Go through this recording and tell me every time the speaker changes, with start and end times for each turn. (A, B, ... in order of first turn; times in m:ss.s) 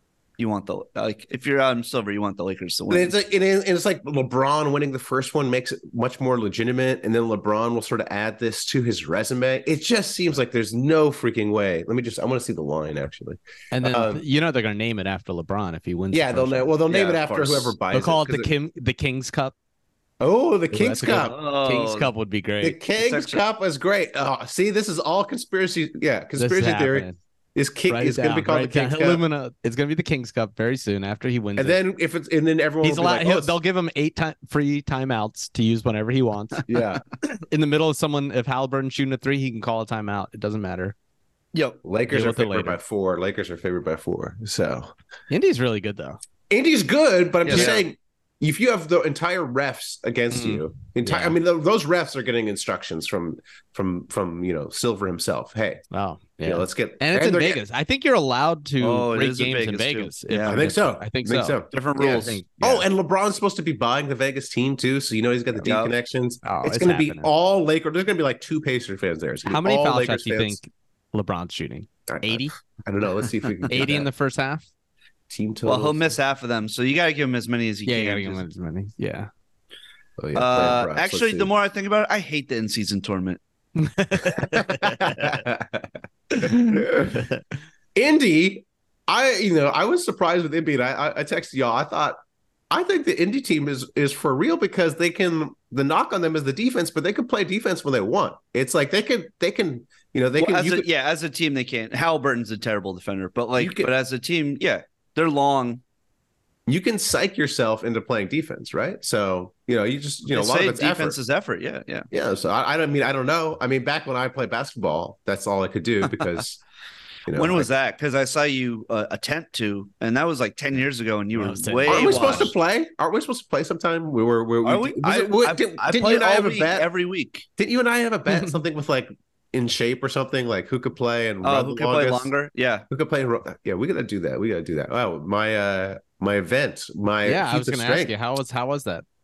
0:00.4-0:03.1 A
0:02.9-0:14.2 B
0:13.7-0:16.8 C
0:16.1-0:18.5 B
0:16.9-0:17.6 A
0:17.9-0:19.5 C
0:20.2-0:21.3 B
0:20.7-0:22.8 C
0:21.1-0:22.1 A
0:22.6-0:29.2 B
0:23.0-0:23.4 A
0:26.4-0:27.2 C
0:27.9-0:31.8 C
0:31.6-0:33.6 B
0:32.8-0:36.6 C
0:36.7-0:37.0 B
0:37.4-0:40.9 C
0:41.5-0:41.8 A
0:41.8-0:44.9 B
0:42.1-0:42.8 C
0:45.3-0:46.2 C
0:46.5-0:55.8 B
0:47.4-0:47.8 A
0:50.3-0:51.4 C
0:55.9-1:02.8 C
0:56.4-0:57.6 B
0:58.8-1:00.6 A
1:00.4-1:10.6 B
1:01.7-1:02.4 A
1:05.6-1:05.9 A
1:06.4-1:07.3 C
1:09.5-1:12.5 C
1:12.1-1:14.1 B
1:13.7-1:14.7 C
1:15.3-1:16.1 B
1:15.6-1:18.4 A
1:17.9-1:19.3 C
1:20.2-1:21.5 B
1:20.3-1:23.4 A
1:23.8-1:25.3 C
1:24.4-1:27.2 B
1:26.4-1:27.4 C
1:27.9-1:32.2 B
1:32.7-1:40.9 B
1:40.4-1:45.8 A
1:43.6-1:43.9 B
1:46.7-1:51.2 B
1:50.3-1:52.1 A
1:52.1-1:56.6 B
1:57.3-1:57.7 B
1:57.3-2:02.5 A
2:01.3-2:02.5 C
2:01.9-2:06.9 B
2:04.6-2:07.4 A
2:07.6-2:12.3 B
2:11.4-2:12.8 A
2:12.9-2:18.1 B
2:17.2-2:19.0 C